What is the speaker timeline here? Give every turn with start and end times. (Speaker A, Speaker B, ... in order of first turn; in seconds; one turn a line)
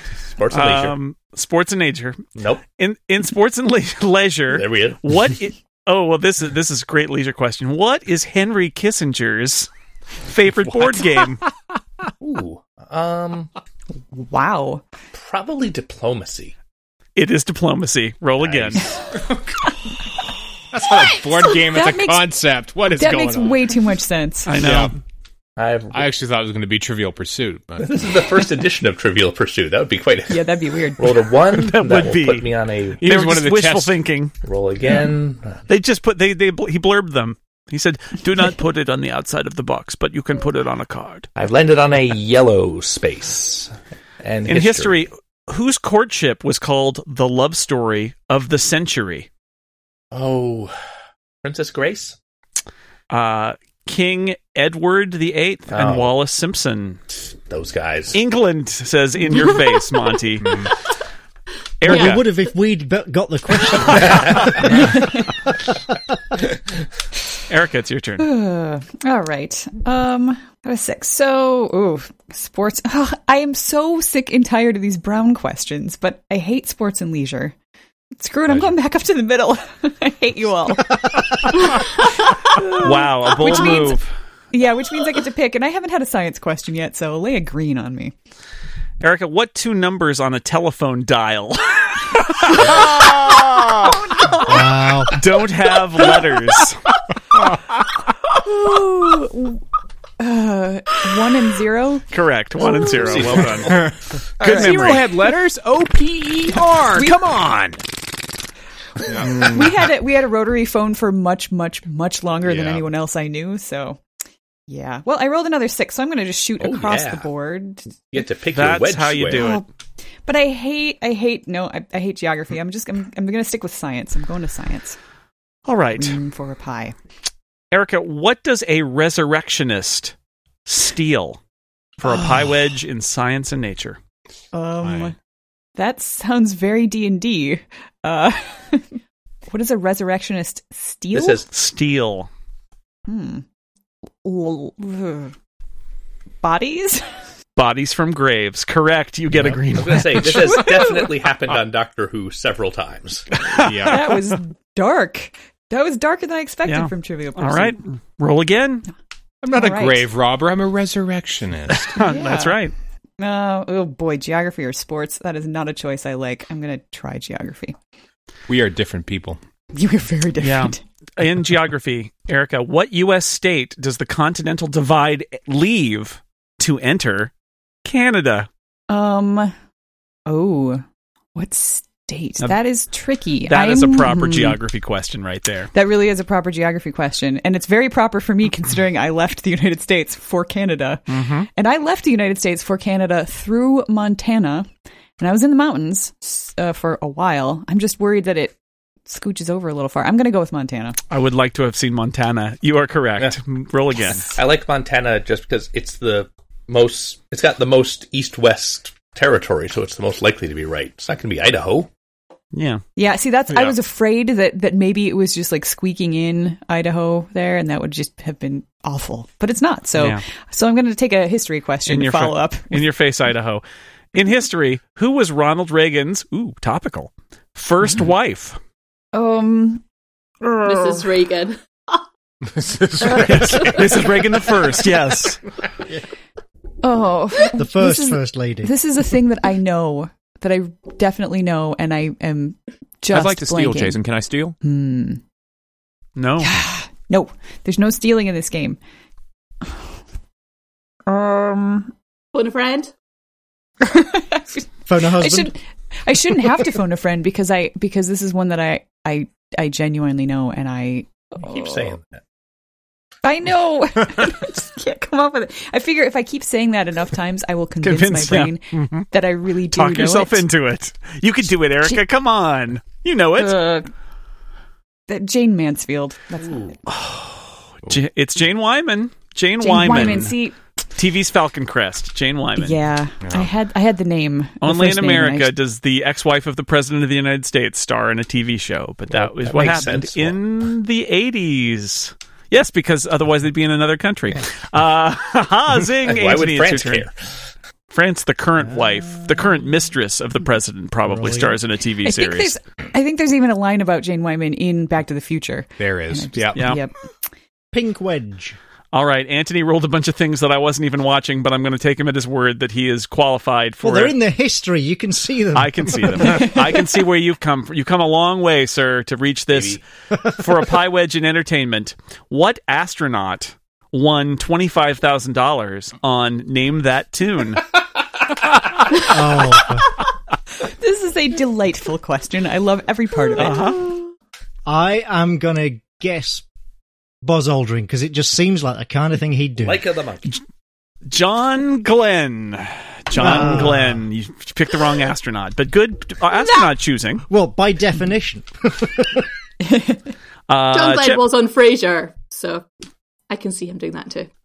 Speaker A: 0.3-1.0
Speaker B: 0.5-2.2
Speaker A: 2.4-2.6
Speaker B: 2.8-9.7
Speaker A: 4.5-5.0
Speaker B: 10.2-11.4
Speaker A: 12.2-13.5
Speaker C: 14.1-14.8
Speaker A: 15.2-16.6
Speaker B: 17.2-18.9
Speaker A: 18.4-19.0
Speaker D: 20.7-23.6
Speaker C: 21.5-22.3
Speaker C: 22.9-24.6
Speaker B: 24.5-25.0
Speaker D: 24.6-24.9
Speaker A: 25.6-26.1
Speaker D: 25.9-28.1
Speaker A: 27.8-33.0
Speaker C: 30.3-31.3
Speaker B: 31.5-32.5
Speaker D: 33.0-34.0
Speaker B: 33.0-34.3
Speaker A: 34.4-35.6
Speaker B: 35.7-41.3
Speaker A: 41.4-45.0
Speaker B: 44.5-49.3
Speaker A: 50.1-50.7
Speaker A: 51.4-52.2
Speaker B: 53.1-57.0
Speaker A: 55.7-56.1
Speaker A: 57.4-58.2
Speaker B: 58.1-60.7
Speaker B: 61.8-62.2
Speaker E: 61.8-64.9
Speaker F: 61.9-62.2
Speaker B: 63.8-64.7
Speaker A: 63.9-64.7
Speaker C: 64.7-65.3
Speaker B: 67.5-68.3
Speaker C: 68.2-77.5
Speaker C: 78.2-81.1
Speaker C: 82.3-84.0
Speaker B: 82.7-84.1
Speaker C: 84.5-88.1
Speaker B: 89.0-94.0
Speaker E: 94.4-95.1
Speaker B: 95.1-96.8
Speaker C: 98.3-99.6
Speaker C: 100.2-102.1
Speaker B: 102.1-105.1
Speaker A: 102.9-103.9
Speaker D: 103.7-104.0
Speaker G: 104.4-107.8
Speaker C: 104.4-105.0
Speaker D: 109.1-109.6
Speaker C: 109.3-114.0
Speaker D: 112.4-112.8
Speaker C: 114.7-117.9
Speaker A: 116.6-117.3
Speaker A: 118.1-119.4
Speaker B: 118.5-119.6
Speaker C: 119.3-119.7
Speaker C: 120.2-125.0
Speaker B: 125.7-126.2
Speaker C: 126.0-127.0
Speaker B: 127.7-130.1
Speaker B: 130.7-131.4
Speaker B: 132.0-134.0
Speaker C: 134.5-135.2
Speaker D: 134.8-135.1
Speaker C: 135.8-139.0
Speaker C: 139.5-141.4
Speaker A: 141.1-141.5
Speaker B: 141.5-142.3
Speaker C: 143.1-143.4
Speaker C: 144.2-145.3
Speaker C: 146.4-147.1
Speaker B: 147.6-150.7
Speaker A: 149.7-153.4
Speaker C: 150.4-151.1
Speaker B: 153.4-154.3
Speaker D: 153.5-154.1
Speaker C: 153.8-157.8
Speaker B: 156.7-158.9
Speaker D: 159.4-162.0
Speaker C: 159.5-160.1
Speaker B: 161.7-162.7
Speaker C: 162.0-162.6
Speaker C: 163.2-167.8
Speaker D: 168.5-169.4
Speaker C: 169.7-170.8
Speaker B: 170.4-177.3
Speaker B: 177.8-178.5
Speaker C: 178.9-179.5
Speaker C: 180.3-180.8
Speaker C: 181.3-184.6
Speaker B: 183.5-185.7
Speaker C: 185.7-201.0
Speaker B: 191.1-191.5
Speaker B: 201.1-204.3
Speaker A: 204.2-211.9
Speaker B: 212.5-212.8
Speaker C: 213.0-222.8
Speaker B: 221.9-223.6
Speaker B: 224.1-228.6
Speaker C: 229.1-229.8
Speaker C: 230.4-231.0
Speaker F: 230.6-232.0
Speaker D: 232.4-234.1
Speaker C: 233.0-233.4
Speaker B: 233.1-235.4
Speaker C: 236.8-244.0
Speaker E: 237.6-238.7
Speaker G: 243.1-244.6
Speaker C: 244.6-245.2
Speaker B: 246.2-246.5
Speaker C: 246.4-248.8
Speaker C: 251.1-251.9
Speaker F: 252.3-252.9
Speaker C: 253.8-261.9
Speaker E: 254.9-255.5
Speaker A: 261.4-262.2
Speaker C: 263.2-270.4
Speaker B: 267.8-269.1
Speaker B: 269.7-273.6
Speaker C: 273.4-273.9
Speaker C: 275.1-276.8
Speaker B: 276.9-280.4
Speaker C: 279.6-280.6
Speaker B: 280.9-282.8
Speaker C: 282.6-285.5
Speaker D: 283.2-283.5
Speaker B: 284.6-297.1
Speaker A: 289.1-290.4
Speaker A: 296.1-297.1
Speaker B: 297.9-302.6
Speaker E: 298.7-299.2
Speaker E: 301.1-301.6
Speaker C: 302.0-306.9
Speaker D: 305.8-306.8
Speaker B: 306.6-306.8
Speaker E: 307.7-308.6
Speaker B: 308.9-314.1
Speaker E: 313.8-316.5
Speaker B: 315.6-327.7
Speaker C: 316.3-316.6
Speaker A: 319.5-319.8
Speaker E: 329.1-329.9
Speaker C: 330.6-333.6
Speaker B: 333.4-333.8
Speaker E: 334.7-336.4
Speaker E: 337.2-339.9
Speaker A: 339.6-340.4
Speaker B: 341.1-347.2
Speaker E: 343.2-344.0
Speaker E: 347.3-349.3
Speaker C: 349.6-350.0
Speaker B: 350.5-351.2
Speaker F: 350.7-352.7
Speaker F: 353.3-354.3